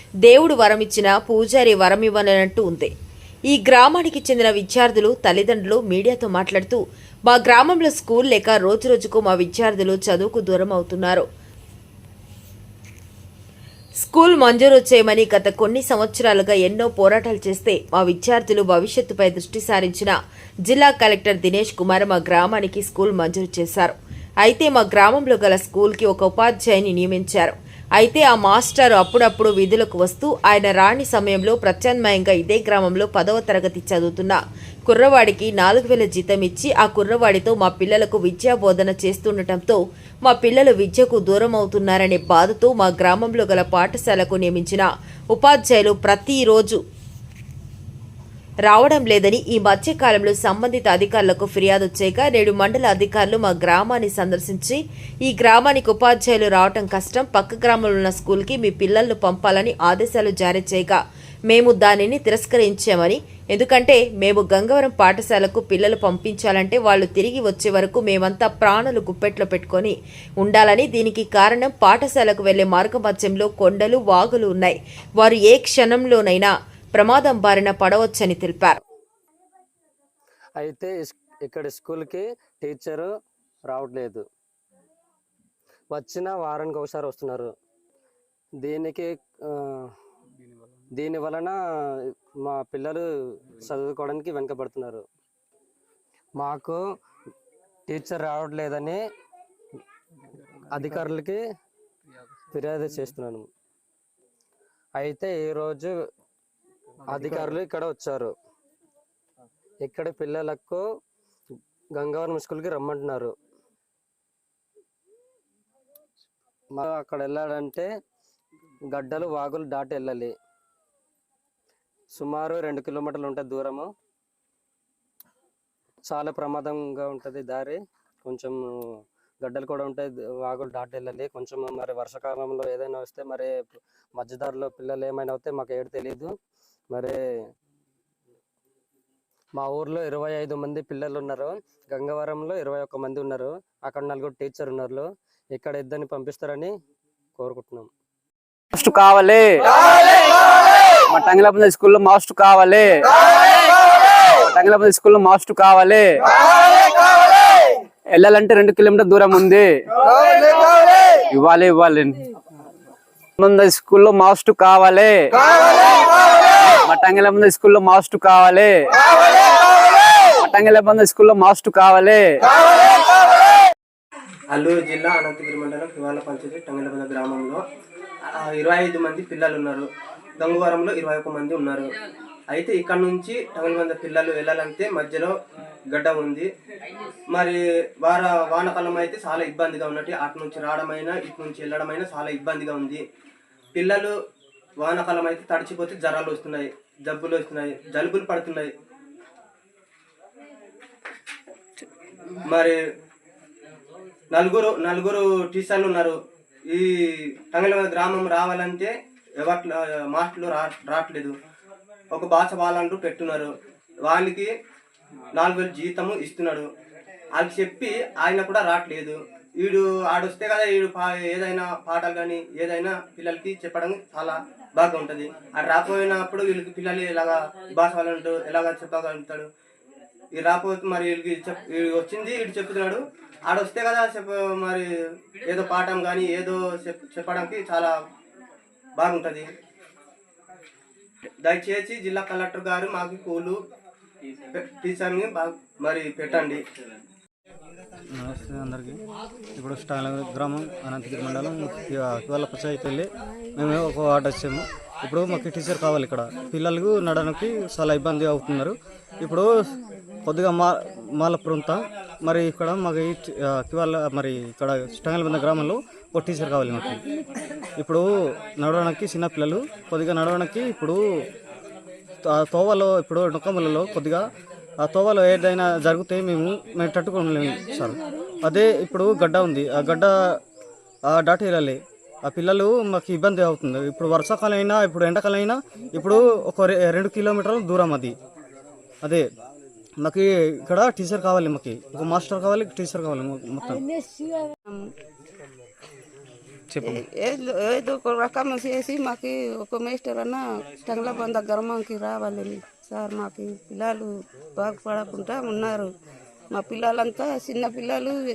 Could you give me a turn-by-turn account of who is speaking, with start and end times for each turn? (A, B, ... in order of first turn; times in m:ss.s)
0:00.2-0:02.9 A
0:03.5-0:11.2 A
0:14.0-0:20.2 A
0:20.7-0:46.8 A
0:48.6-1:18.8 A
1:20.6-1:23.1 B
1:23.7-1:24.2 B
1:25.9-1:27.5 B
1:28.6-1:29.9 B
1:30.4-1:30.8 C
1:31.0-1:35.0 B
1:36.4-1:36.8 B
1:37.9-1:39.0 B
1:40.4-1:41.0 C
1:40.7-1:41.4 B
1:42.5-1:43.5 B
1:45.0-1:45.9 B
1:47.1-1:48.3 B
1:49.8-1:50.8 B
1:51.9-1:53.3 B
1:56.7-1:57.9 B
1:58.9-2:00.3 B
2:02.1-2:03.9 B
2:06.1-2:08.6 B
2:09.4-2:16.4 B
2:16.9-2:17.2 B
2:19.6-2:26.7 B
2:27.4-2:27.9 B
2:28.7-2:30.3 C
2:31.1-2:36.2 C
2:38.1-2:39.7 C
2:41.3-2:42.2 C
2:43.4-2:46.0 C
2:46.8-2:48.7 C
2:50.3-2:52.2 C
2:54.5-2:57.6 D
2:58.4-2:59.9 D
3:00.4-3:01.9 D
3:02.5-3:05.3 D
3:05.9-3:06.5 D
3:07.3-3:13.0 D
3:13.8-3:14.1 D
3:14.8-3:18.7 D
3:22.5-3:22.8 D
3:24.3-3:26.9 D
3:27.4-3:31.3 D
3:32.1-3:33.5 D
3:34.0-3:34.5 D
3:35.4-3:36.7 D
3:37.4-3:49.5 D
3:50.3-3:54.9 D
3:55.5-3:57.9 D
3:59.0-3:59.5 D
4:01.4-4:03.6 D
4:04.5-4:06.6 D
4:08.1-4:09.0 E
4:09.6-4:19.7 E
4:20.2-4:27.0 E
4:27.8-4:28.0 E
4:28.6-4:31.0 E
4:32.2-4:34.3 E
4:34.8-4:40.4 E
4:41.1-4:48.2 E
4:50.0-4:53.9 E
4:54.7-4:54.9 F
4:56.7-4:57.0 E
4:56.8-5:05.9 F
5:06.5-5:08.2 F